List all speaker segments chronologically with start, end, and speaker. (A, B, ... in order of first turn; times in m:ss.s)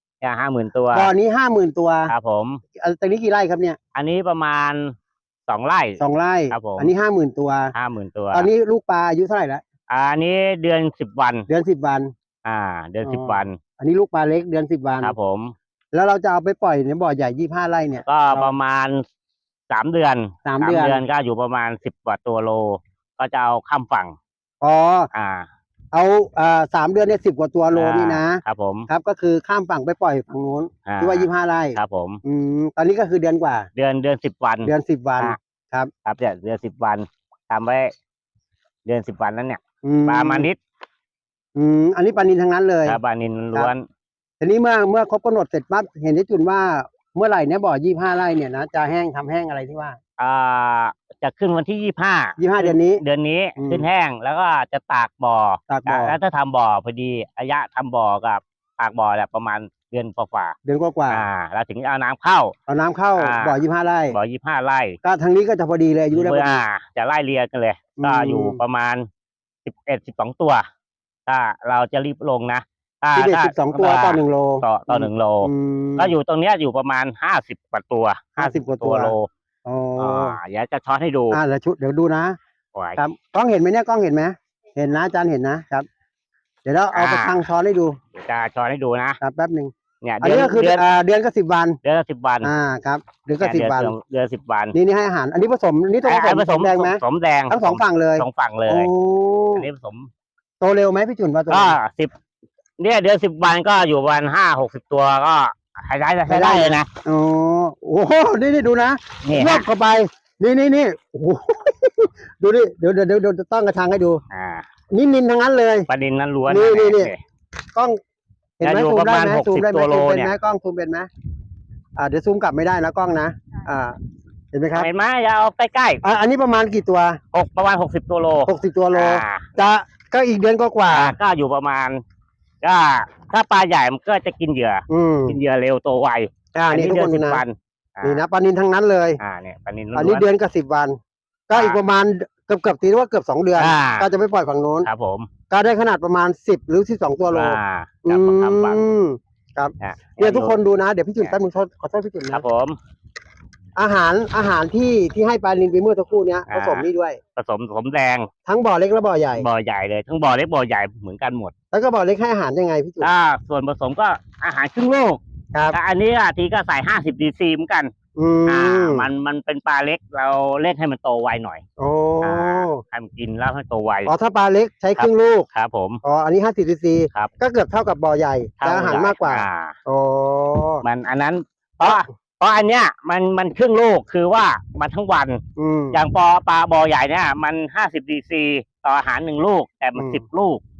0:00.2-0:01.1 A
0:00.9-0:02.1 B
0:02.1-0:02.6 A
0:02.8-0:03.8 B
0:03.9-0:04.9 A
0:05.5-0:06.9 A
0:06.0-0:07.7 B
0:07.7-0:08.5 A
0:08.3-0:09.6 B
0:09.9-0:11.5 A
0:11.5-0:12.1 B
0:12.4-0:13.6 A
0:13.0-0:15.1 B
0:15.0-0:15.5 A
0:15.9-0:18.5 B
0:18.0-0:19.0 A
0:19.7-0:24.2 A
0:20.4-0:21.0 B
0:24.6-0:25.1 B
0:25.1-0:25.5 A
0:25.9-0:33.7 B
0:27.7-0:28.9 A
0:30.8-0:32.2 A
0:33.8-0:35.4 A
0:34.6-0:35.9 B
0:36.0-0:37.9 A
0:38.8-0:40.6 A
0:39.8-0:40.5 B
0:41.5-0:43.0 B
0:42.8-0:43.8 A
0:44.4-0:50.0 B
0:50.2-1:00.5 A
0:52.4-0:53.0 B
0:53.6-0:53.9 B
0:55.7-0:56.2 B
1:00.6-1:01.3 B
1:01.1-1:02.5 A
1:02.7-1:04.2 B
1:03.2-1:03.5 A
1:04.1-1:05.0 A
1:05.0-1:06.6 B
1:06.1-1:09.1 A
1:08.0-1:08.6 B
1:09.6-1:10.6 A
1:11.3-1:19.3 A
1:13.2-1:16.1 B
1:18.4-1:19.1 B
1:19.6-1:20.4 B
1:20.0-1:21.4 A
1:21.3-1:22.4 B
1:22.7-1:23.0 A
1:23.0-1:25.9 B
1:26.6-1:28.0 B
1:26.9-1:27.5 A
1:28.2-1:29.2 A
1:29.2-1:31.8 B
1:30.0-1:30.8 A
1:31.8-1:32.5 A
1:32.4-1:33.9 B
1:33.4-1:34.7 A
1:34.7-1:39.6 B
1:36.0-1:38.9 A
1:39.5-1:40.1 A
1:40.6-1:41.8 B
1:41.5-1:42.1 A
1:42.8-1:46.9 A
1:46.3-1:54.2 B
1:49.2-1:49.7 A
1:54.3-1:54.6 A
1:54.9-1:55.9 B
1:55.9-1:57.2 A
1:56.5-1:57.1 B
1:58.6-2:01.1 B
1:58.6-2:00.3 A
2:02.0-2:03.9 B
2:04.5-2:04.9 B
2:04.7-2:06.0 A
2:06.0-2:07.2 B
2:07.3-2:09.5 A
2:08.4-2:11.2 B
2:10.9-2:12.0 A
2:12.6-2:18.2 A
2:14.9-2:15.4 B
2:16.5-2:17.4 B
2:18.0-2:19.2 B
2:19.2-2:20.3 A
2:19.9-2:21.0 B
2:21.5-2:24.9 B
2:21.5-2:21.8 A
2:23.6-2:24.1 A
2:24.8-2:25.3 A
2:25.5-2:32.4 B
2:27.3-2:28.9 A
2:29.8-2:30.6 A
2:32.3-2:32.8 A
2:33.8-2:37.2 B
2:36.5-2:38.3 A
2:38.4-2:39.5 B
2:39.3-2:41.5 A
2:41.7-2:43.1 B
2:43.0-2:45.2 A
2:45.7-2:47.9 A
2:48.2-2:49.1 B
2:48.5-2:51.6 A
2:51.8-2:52.8 B
2:52.2-2:54.1 A
2:54.0-2:55.5 B
2:55.0-2:56.0 A
2:56.0-3:00.8 B
2:58.6-2:59.7 A
3:00.8-3:05.4 A
3:01.8-3:02.1 B
3:05.6-3:06.0 B
3:05.9-3:10.6 A
3:10.0-3:10.2 B